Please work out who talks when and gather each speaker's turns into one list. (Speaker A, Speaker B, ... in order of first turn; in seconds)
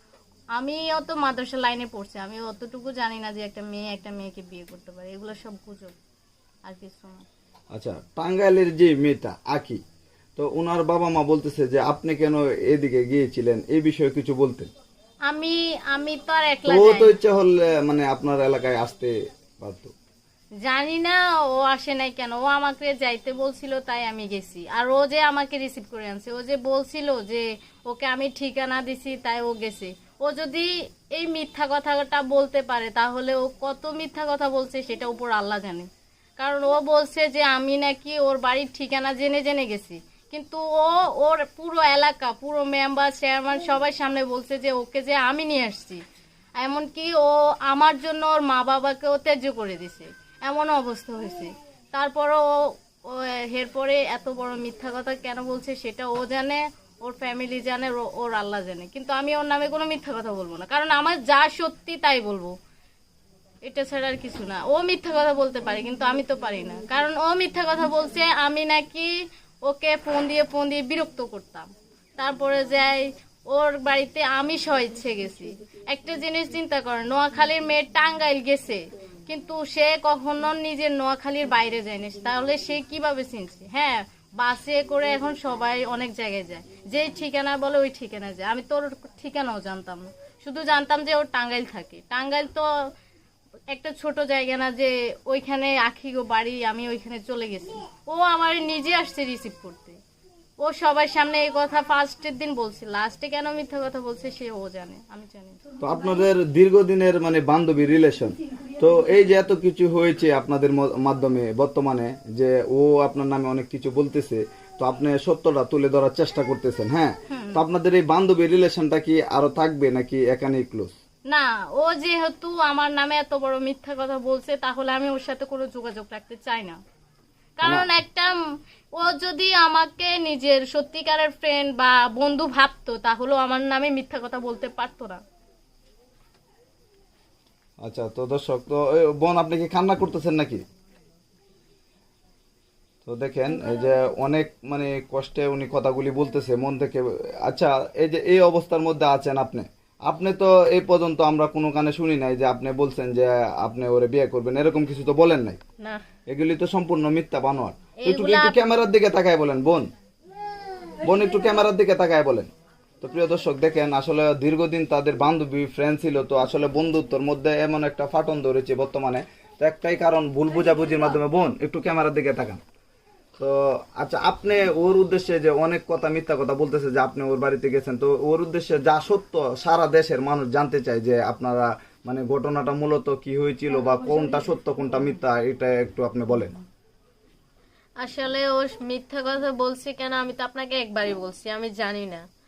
Speaker A: 0.6-5.9, 6.7-7.2, 15.3-17.2, 20.6-46.0, 46.6-62.5, 63.6-69.1, 69.6-71.7, 72.2-92.7, 93.7-100.0, 100.6-105.6, 117.3-117.6, 121.3-126.8, 127.6-128.4, 129.0-135.2, 158.0-158.6, 188.0-192.3
Speaker B: 7.7-9.8, 10.4-14.7, 16.7-19.9, 105.8-120.9, 127.6-127.9, 137.8-140.6, 143.1-155.6, 156.3-159.9, 161.0-162.5, 163.0-172.6, 173.4-186.6